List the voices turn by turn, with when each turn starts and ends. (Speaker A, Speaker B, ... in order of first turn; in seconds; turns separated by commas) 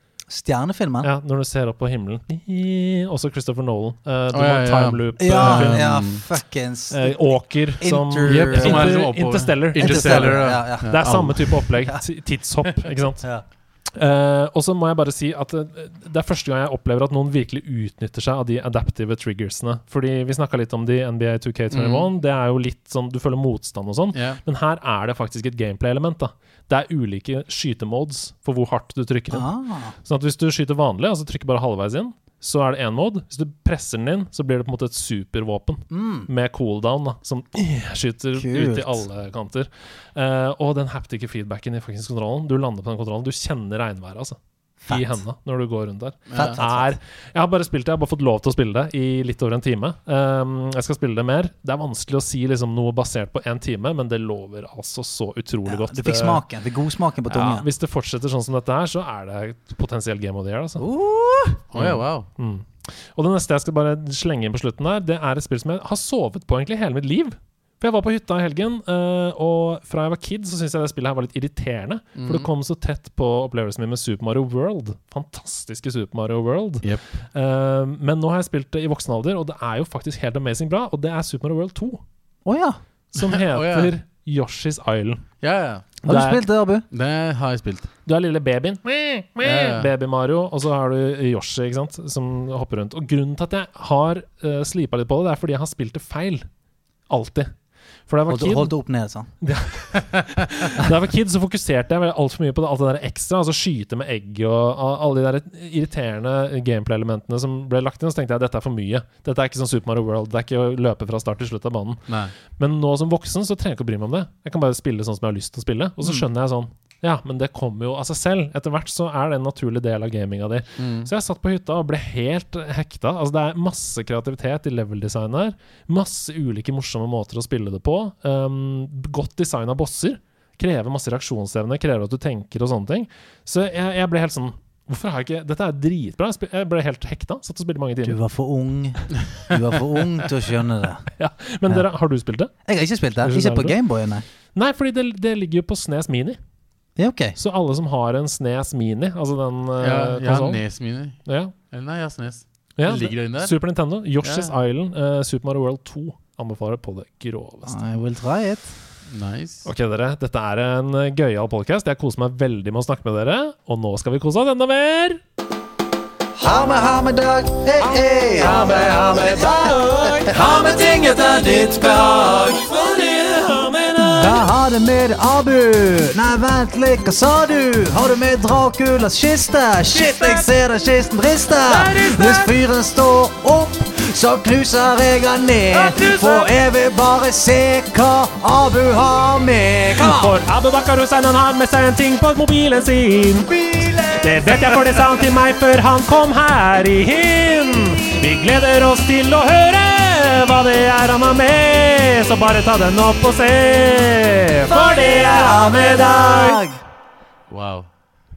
Speaker A: 0.3-1.1, Speaker B: 1.0-5.8, Speaker C: 4.3-6.2, Speaker A: 5.2-9.0, Speaker B: 6.9-13.3, Speaker C: 8.2-11.6, Speaker A: 9.8-11.1, Speaker B: 13.9-29.5, Speaker C: 21.7-22.1, Speaker C: 24.1-24.4, Speaker A: 29.3-29.9, Speaker B: 30.0-56.4, Speaker A: 35.9-36.3, Speaker A: 38.4-39.0, Speaker A: 44.8-45.2, Speaker C: 46.3-46.6, Speaker A: 46.4-47.0, Speaker A: 55.7-57.7, Speaker B: 57.3-60.9, Speaker A: 60.8-61.6, Speaker C: 61.7-62.3, Speaker B: 61.8-82.0, Speaker C: 72.2-72.5, Speaker A: 82.5-82.8, Speaker B: 83.1-85.2, Speaker C: 83.2-83.9, Speaker C: 85.4-86.0, Speaker B: 86.1-86.4, Speaker A: 86.1-86.8, Speaker C: 86.9-87.9, Speaker B: 88.1-96.5, Speaker C: 89.4-89.9, Speaker B: 97.1-97.5, Speaker B: 98.1-98.7, Speaker A: 98.3-99.3, Speaker B: 99.4-138.2, Speaker C: 112.1-112.3, Speaker C: 120.8-121.1, Speaker A: 138.0-141.1, Speaker B: 141.2-142.5, Speaker A: 142.7-144.2, Speaker B: 143.2-143.8, Speaker B: 144.6-146.4, Speaker A: 147.0-147.4, Speaker B: 147.4-150.6, Speaker C: 149.8-151.2, Speaker B: 151.3-151.5, Speaker C: 151.7-153.5, Speaker B: 152.8-157.8, Speaker C: 154.2-154.5, Speaker A: 157.7-158.7, Speaker C: 159.1-159.7, Speaker B: 159.7-165.2, Speaker A: 166.4-172.7, Speaker B: 168.4-170.6, Speaker B: 171.7-174.4, Speaker A: 174.0-190.4, Speaker B: 179.9-180.5, Speaker B: 181.7-182.5, Speaker B: 185.7-186.5, Speaker B: 189.9-193.5, Speaker A: 193.5-194.8, Speaker B: 194.2-206.6, Speaker A: 204.7-206.8, Speaker C: 207.5-207.9